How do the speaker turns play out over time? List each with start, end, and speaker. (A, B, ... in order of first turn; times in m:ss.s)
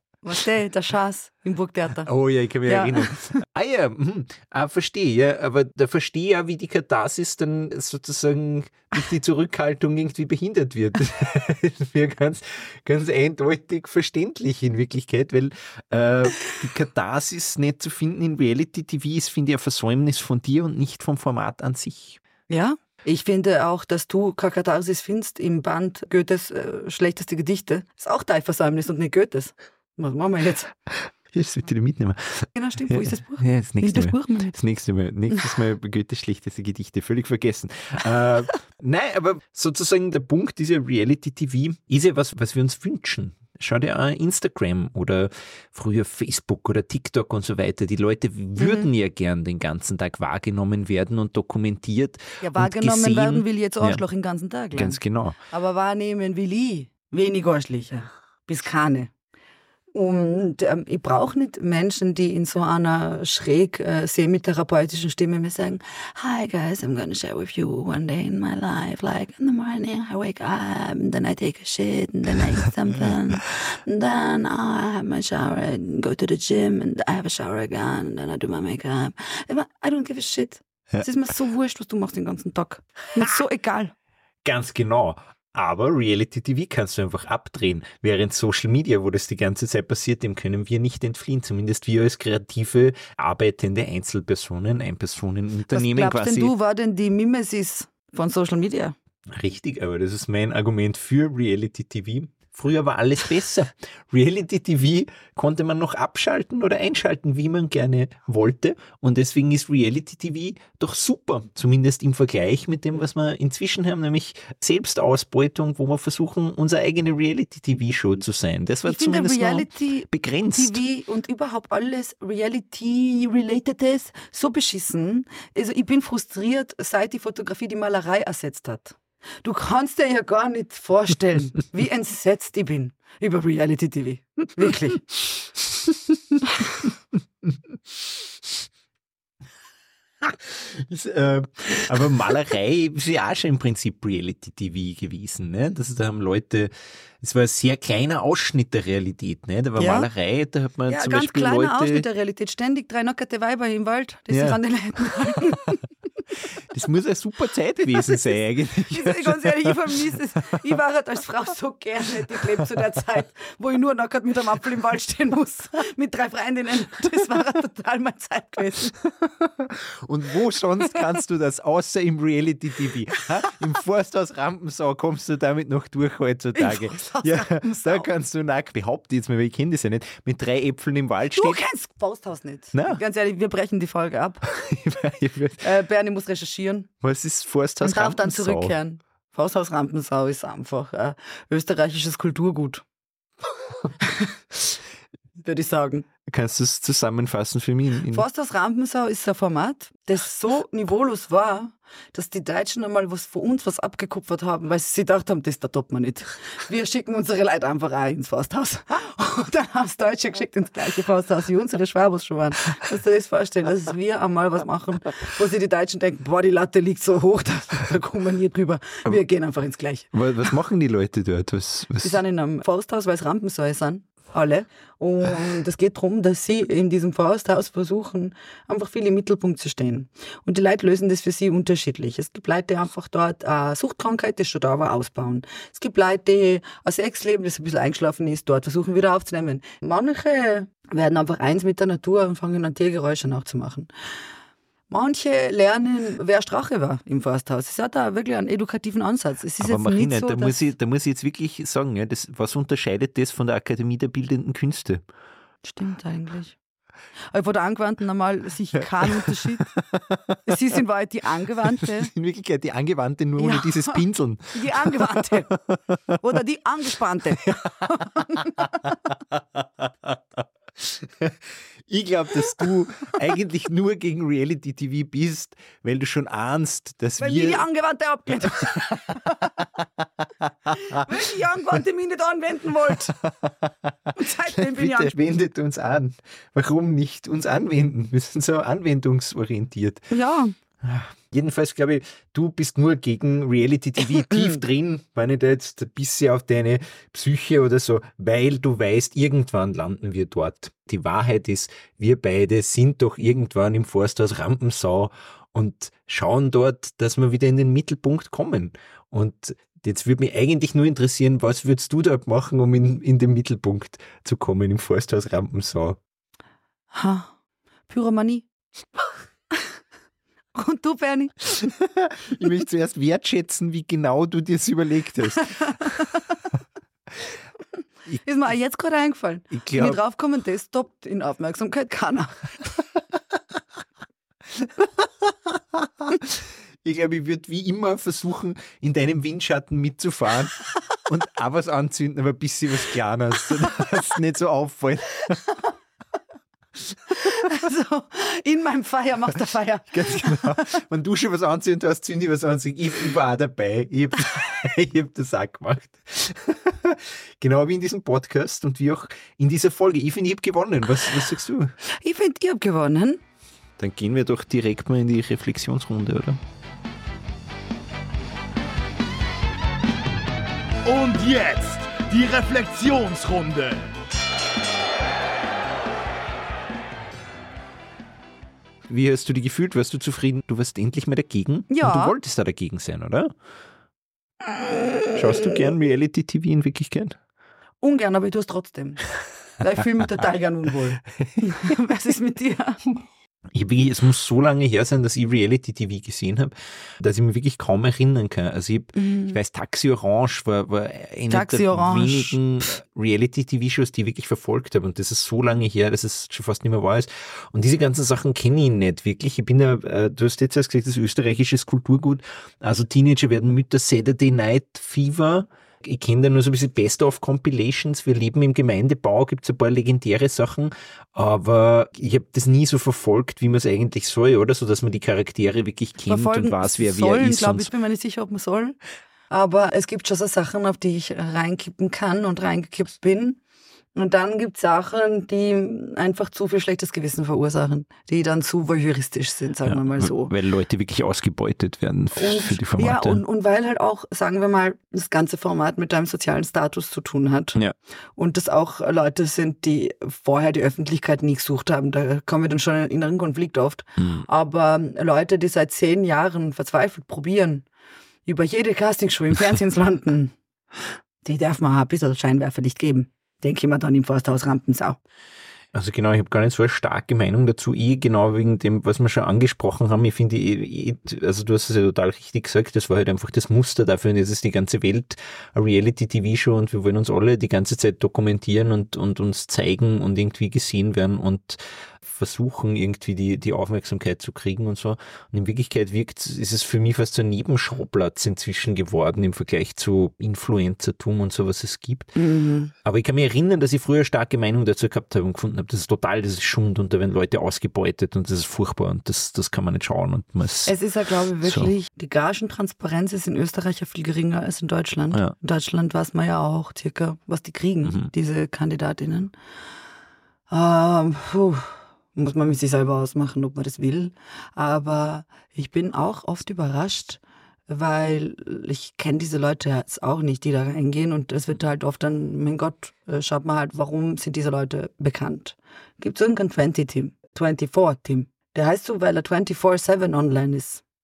0:00.2-0:02.1 A
0:02.0-0:22.2 B
0:02.6-0:03.4 A
0:22.5-0:30.7 A
0:31.3-0:54.0 B
0:32.5-0:34.5 A
0:48.6-0:48.9 A
0:52.4-0:59.1 A
0:54.7-0:55.4 B
0:59.9-1:23.9 A
1:24.4-1:36.5 B
1:35.7-1:38.9 A
1:39.3-2:00.8 B
1:58.9-2:15.1 A
2:20.2-2:32.0 B
2:29.8-2:30.1 A
2:30.9-2:35.8 A
2:34.3-2:35.7 B
2:36.6-2:40.0 B
2:38.9-2:49.0 A
2:49.2-3:01.6 B
2:56.6-2:58.1 A
3:01.3-3:04.4 A
3:02.7-3:03.0 B
3:04.4-3:05.7 B
3:05.6-3:06.9 A
3:07.0-3:08.7 B
3:07.8-3:12.8 A
3:14.0-3:14.3 A
3:15.4-3:16.0 A
3:16.3-3:18.2 B
3:18.1-3:40.1 A
3:40.1-3:42.2 B
3:42.0-4:03.9 A
4:04.9-4:10.6 A
4:09.6-4:15.0 B
4:15.6-4:16.6 A
4:17.3-4:19.7 A
4:19.1-4:20.4 B
4:20.5-4:22.1 A
4:21.8-4:26.1 B
4:23.4-4:25.6 A
4:26.2-4:28.7 A
4:27.4-4:37.6 B
4:37.2-4:39.5 A
4:40.4-4:41.1 B
4:40.8-4:43.2 A
4:42.9-4:50.1 B
4:44.2-4:45.1 A
4:50.1-4:50.5 A
4:50.8-5:16.0 B
5:16.9-5:17.3 A
5:17.9-5:18.5 A
5:20.5-5:21.6 A
5:21.6-5:25.9 B
5:25.6-5:26.0 A
5:28.2-5:32.5 A
5:29.5-5:30.0 B
5:34.6-5:45.4 B
5:47.1-5:50.7 A
5:49.9-6:01.7 B
6:02.0-6:03.2 A
6:03.8-6:06.4 B
6:10.8-6:13.8 C
6:18.9-6:23.3 B
6:21.7-6:22.1 A
6:25.1-6:27.2 B
6:27.8-6:29.0 A
6:29.6-6:32.8 A
6:33.5-7:07.7 B
6:39.0-6:39.3 A
6:41.3-6:42.4 A
7:06.1-7:08.8 A
7:09.3-7:13.4 A
7:13.9-7:20.3 A
7:19.6-7:23.2 B
7:22.2-7:27.6 A
7:28.2-7:37.6 A
7:34.0-7:34.2 B
7:38.2-7:40.3 A
7:41.2-7:45.0 A
7:45.7-8:12.2 B
8:12.2-8:12.7 A
8:12.8-8:20.7 B
8:20.6-8:29.3 A
8:21.4-8:21.7 B
8:27.8-8:28.1 B
8:30.5-8:50.8 A